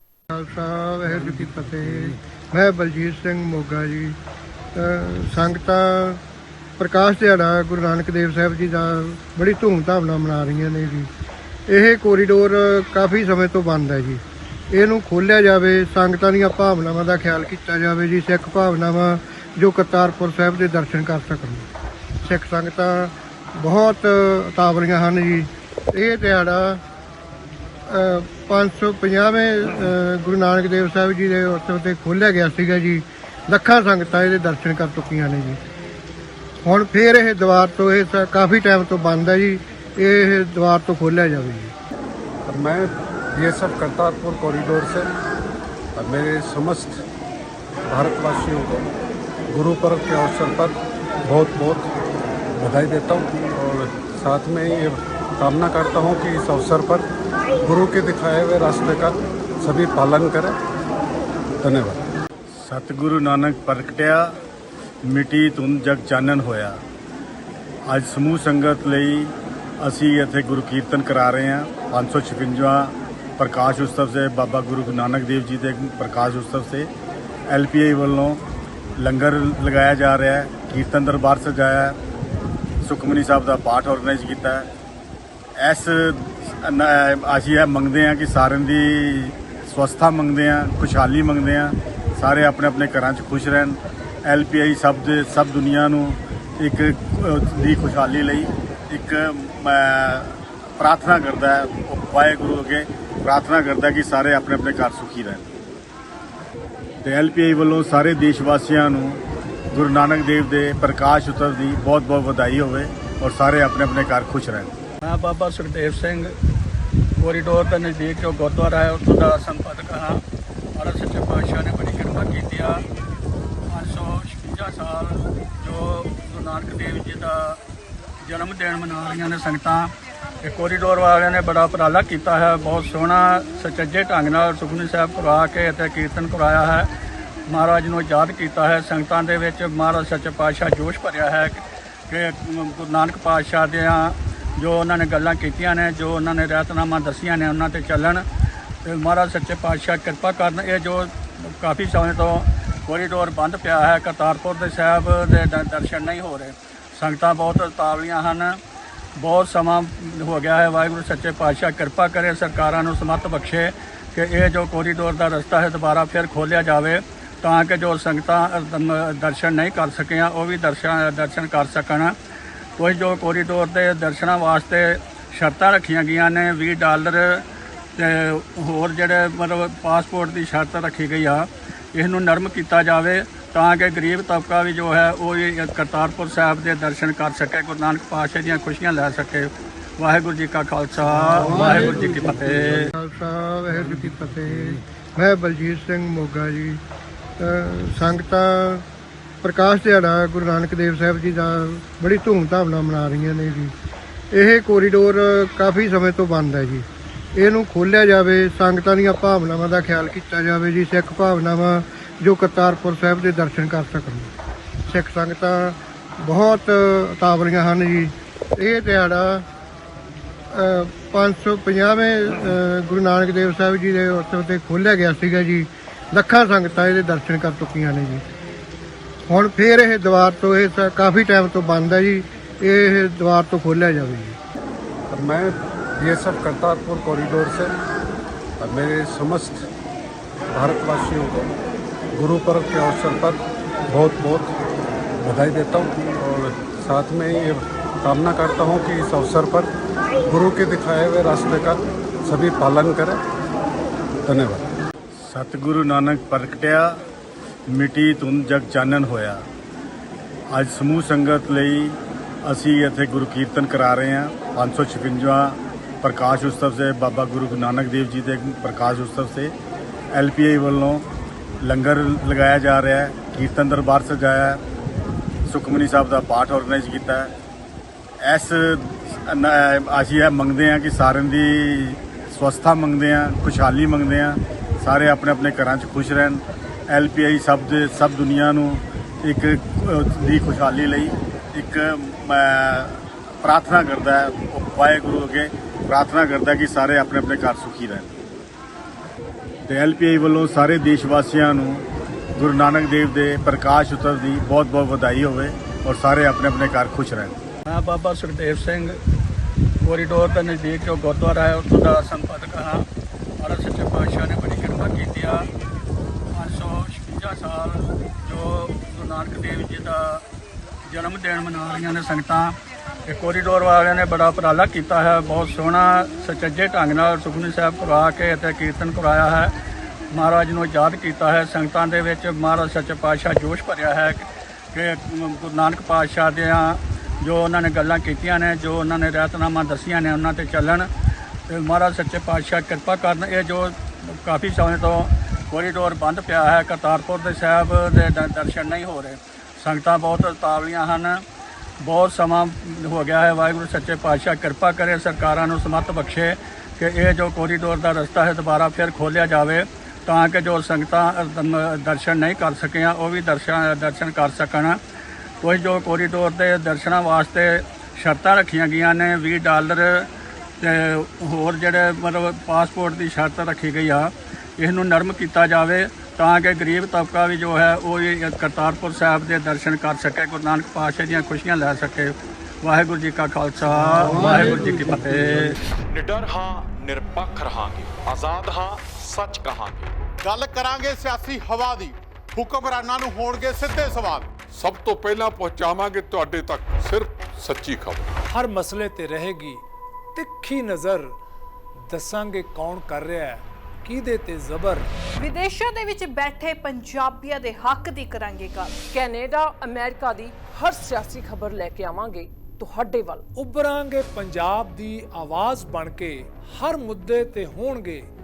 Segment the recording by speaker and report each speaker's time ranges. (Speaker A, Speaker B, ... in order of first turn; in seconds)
Speaker A: 0.3-4.2, 4.7-6.2, 6.8-11.1, 11.7-21.6, 22.2-26.8, 27.9-35.6, 36.6-41.7, 191.4-192.2, 192.7-196.8, 197.4-198.8, 199.4-203.7, 204.3-214.3, 214.9-219.4, 220.5-228.2, 229.2-234.4
Speaker B: 42.5-45.1, 46.0-47.0, 47.9-48.9, 49.5-51.9, 52.6-57.0, 57.6-60.6, 61.6-62.0, 235.1-237.7, 238.6-239.6, 240.5-241.5, 242.1-244.5, 245.2-249.7, 250.2-253.2, 254.2-254.6, 384.1-384.5
Speaker C: 62.5-64.4, 65.0-66.8, 67.9-76.9, 77.5-78.4, 79.0-82.0, 82.8-84.7, 85.6-105.5, 107.0-114.7, 255.1-257.0, 257.7-259.4, 260.5-269.5, 270.1-271.0, 271.6-274.6, 275.4-277.3, 278.2-298.1, 299.7-307.4
Speaker D: 115.0-116.3, 117.2-120.2, 120.7-122.8, 123.7-127.6, 128.2-129.9, 130.4-136.9, 137.5-148.2, 148.8-158.6, 159.2-172.1, 172.8-177.4, 177.9-192.9, 307.6-309.0, 309.8-312.9, 313.4-315.5, 316.3-320.2, 320.9-329.5, 330.1-340.9, 341.5-351.2, 351.8-364.8, 365.4-370.1, 370.6-385.6
Speaker E: 385.9-389.9
Speaker F: 390.2-394.4
Speaker G: 394.5-398.1
Speaker H: 398.3-399.6, 400.1-401.1, 401.9-404.9, 413.3-418.1
Speaker I: 405.2-408.8
Speaker J: 408.9-413.2